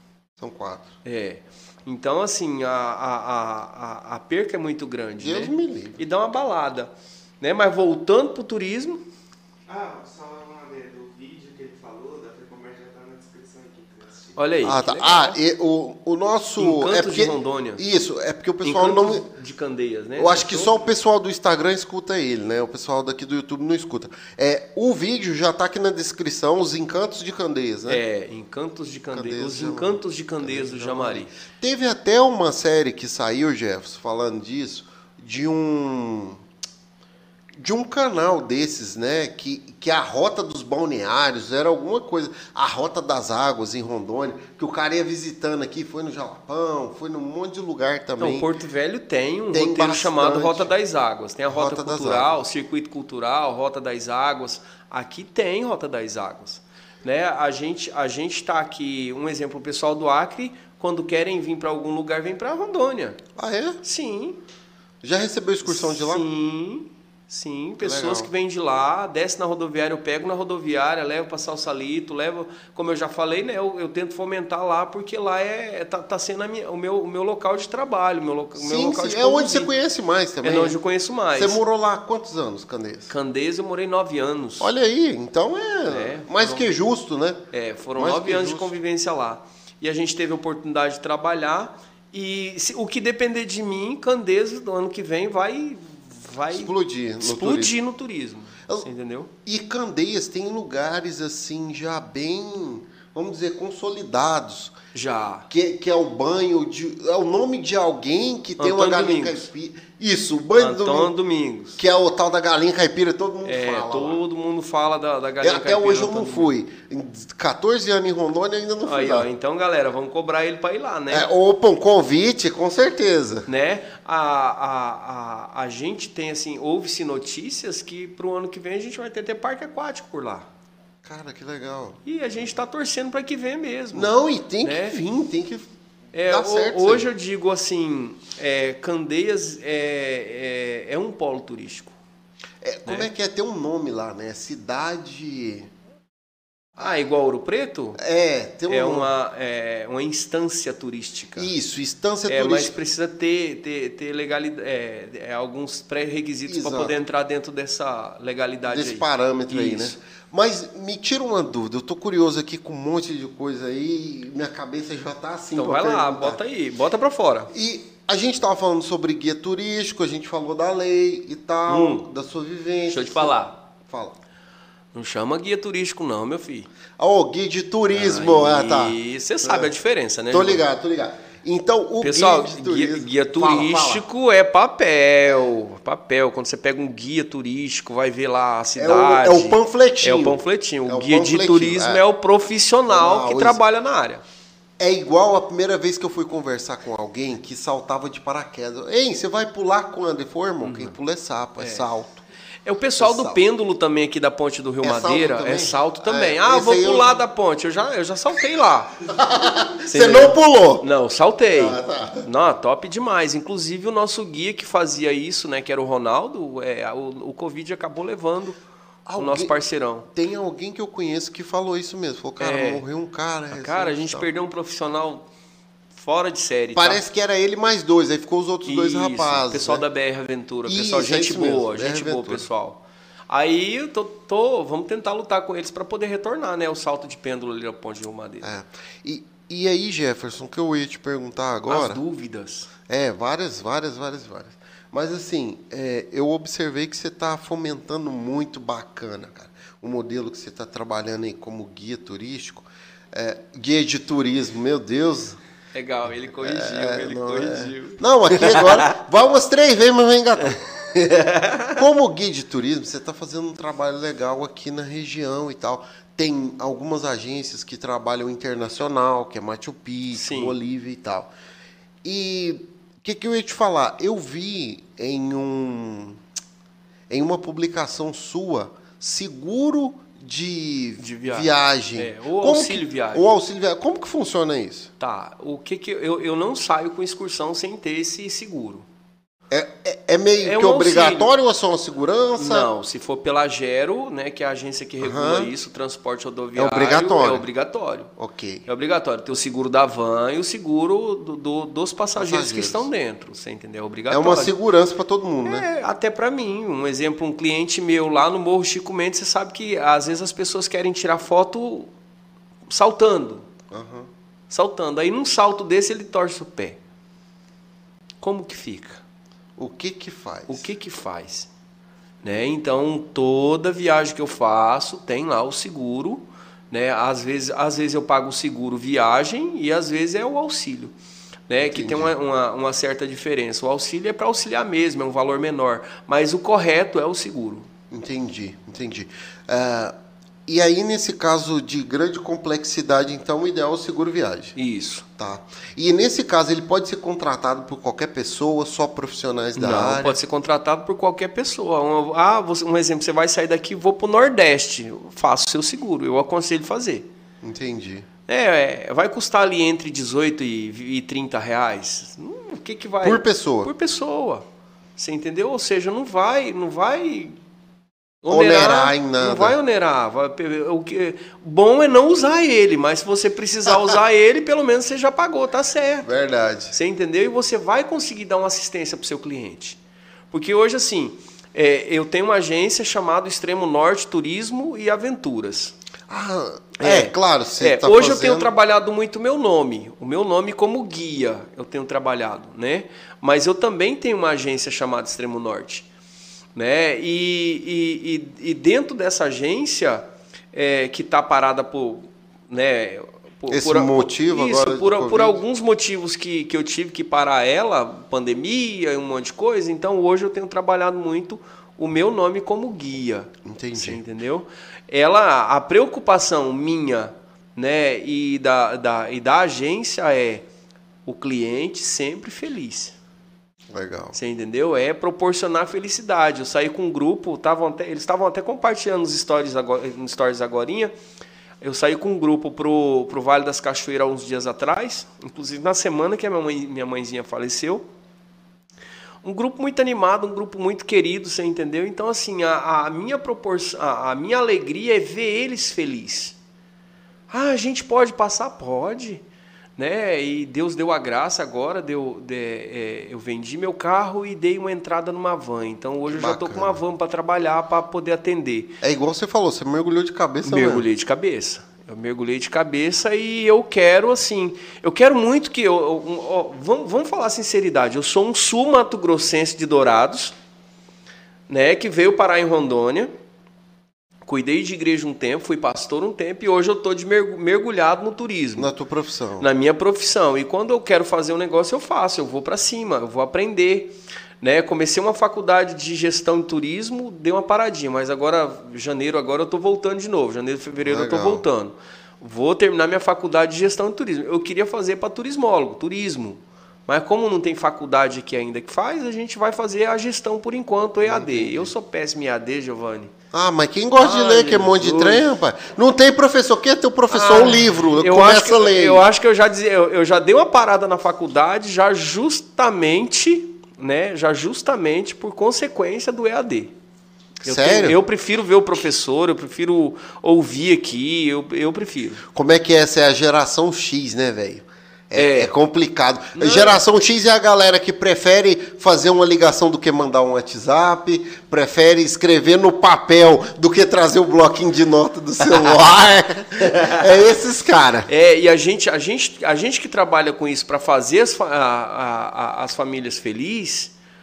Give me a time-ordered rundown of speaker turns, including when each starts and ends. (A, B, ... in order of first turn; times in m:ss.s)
0:00.4-0:00.9 A
0:01.0-0:09.0 B
0:05.2-0:06.0 A
0:09.7-0:14.4 C
0:14.4-0:15.4 B
0:14.6-0:19.3 A
0:16.6-0:17.8 B
0:18.6-0:20.8 B
0:20.2-0:28.0 A
0:27.9-0:31.3 B
0:29.1-0:36.4 A
0:37.6-0:48.5 A
0:48.2-1:03.2 B
0:49.5-0:50.7 A
0:51.5-0:52.3 A
1:03.4-1:03.8 A
1:03.8-1:04.4 B
1:05.0-1:06.3 A
1:05.6-1:19.7 B
1:07.8-1:08.3 A
1:18.6-1:20.8 A
1:20.4-1:21.6 B
1:21.3-1:23.1 A
1:23.1-1:24.7 B
1:24.6-1:27.4 A
1:25.8-1:26.6 B
1:27.5-1:39.3 B
1:27.9-1:28.7 A
1:36.5-1:37.7 A
1:39.4-1:44.8 A
1:44.9-1:45.5 B
1:45.5-1:51.1 A
1:48.6-1:49.4 B
1:50.6-1:51.8 B
1:51.8-1:54.2 A
1:53.4-1:56.5 B
1:55.4-1:59.3 A
1:58.8-2:01.3 B
2:01.1-2:03.4 A
2:03.5-2:10.5 B
2:11.0-2:12.0 A
2:12.0-2:15.0 B
2:13.9-2:15.7 A
2:16.1-2:21.9 B
2:16.3-2:17.1 A
2:22.6-2:25.7 A
2:26.8-2:28.0 B
2:28.0-2:29.1 A
2:28.7-2:31.5 B
2:31.4-2:32.7 A
2:32.3-2:40.0 B
2:36.5-2:36.9 A
2:38.7-2:46.4 A
2:45.5-2:47.5 B
2:47.5-2:54.2 A
2:51.7-2:52.1 B
2:52.9-2:53.6 B
2:54.9-2:56.7 B
2:57.0-2:59.7 A
2:57.9-3:00.6 B
3:00.3-3:04.0 A
3:02.0-3:14.2 B
3:08.8-3:12.0 A
3:12.9-3:13.6 A
3:14.8-3:22.2 A
3:20.6-3:20.9 B
3:21.6-3:21.8 B
3:22.6-3:28.9 B
3:23.0-3:23.4 A
3:24.8-3:27.2 A
3:29.1-3:30.8 A
3:29.9-3:38.6 B
3:31.5-3:32.2 A
3:39.0-3:39.5 A
3:39.2-3:40.1 B
3:40.1-3:44.3 A
3:42.4-3:42.8 B
3:43.5-3:45.3 B
3:45.9-3:47.0 B
3:46.8-3:49.8 A
3:48.6-3:58.4 B
3:50.6-3:52.4 A
3:58.4-4:02.0 A
4:01.7-4:02.7 B
4:02.9-4:15.4 A
4:15.7-4:18.9 B
4:16.4-4:21.1 A
4:21.1-4:21.8 B
4:21.7-4:31.3 A
4:30.1-4:30.6 B
4:32.0-4:36.2 A
4:37.1-4:44.9 A
4:41.0-4:43.3 B
4:45.0-4:48.8 B
4:49.5-4:52.7 A
4:50.4-4:51.3 B
4:52.4-4:58.1 B
4:55.0-4:55.5 A
4:56.6-4:57.5 A
4:58.2-4:58.6 A
4:58.6-5:04.5 B
5:02.2-5:02.9 A
5:04.1-5:05.7 A
5:05.4-5:11.9 B
5:12.7-5:13.4 B
5:13.7-5:14.1 A
5:14.5-5:16.8 B
5:18.2-5:19.0 B
5:19.6-5:20.7 A
5:20.5-5:21.5 B
5:22.2-5:30.9 B
5:31.5-5:37.7 B
5:31.6-5:32.1 A
5:37.9-5:39.9 A
5:40.5-5:44.6 A
5:44.6-5:45.0 B
5:45.2-5:50.2 A
5:49.6-5:57.1 B
5:57.4-5:58.1 A
5:58.3-6:04.4 B
6:03.0-6:03.7 A
6:05.0-6:07.4 B
6:08.2-6:16.1 B
6:08.3-6:09.6 A
6:16.0-6:16.7 A
6:16.7-6:19.8 B
6:20.3-6:25.7 B
6:26.1-6:28.5 A
6:26.8-6:35.9 B
6:36.6-7:00.4 B
6:43.5-6:45.4 A
6:53.4-6:54.0 A
7:01.0-7:02.9 B
7:03.7-7:04.2 A
7:04.1-7:10.9 B
7:11.6-7:17.8 B
7:19.2-7:26.4 B
7:27.3-7:29.2 B
7:29.8-7:38.8 B
7:36.1-7:36.8 A
7:38.8-7:40.8 A
7:40.4-7:50.3 B
7:51.5-7:53.1 B
7:54.2-7:58.7 B
7:58.6-7:59.5 A
7:59.4-8:23.1 B
8:10.8-8:11.4 A
8:21.0-8:21.7 A
8:23.3-8:29.0 A
8:24.0-8:25.2 B
8:27.1-8:36.7 B
8:37.4-8:42.2 B
8:37.4-8:38.0 A
8:42.3-8:58.1 A
8:45.1-8:45.5 B
8:46.3-8:46.8 B
8:56.6-8:57.1 B
8:58.1-9:03.9 B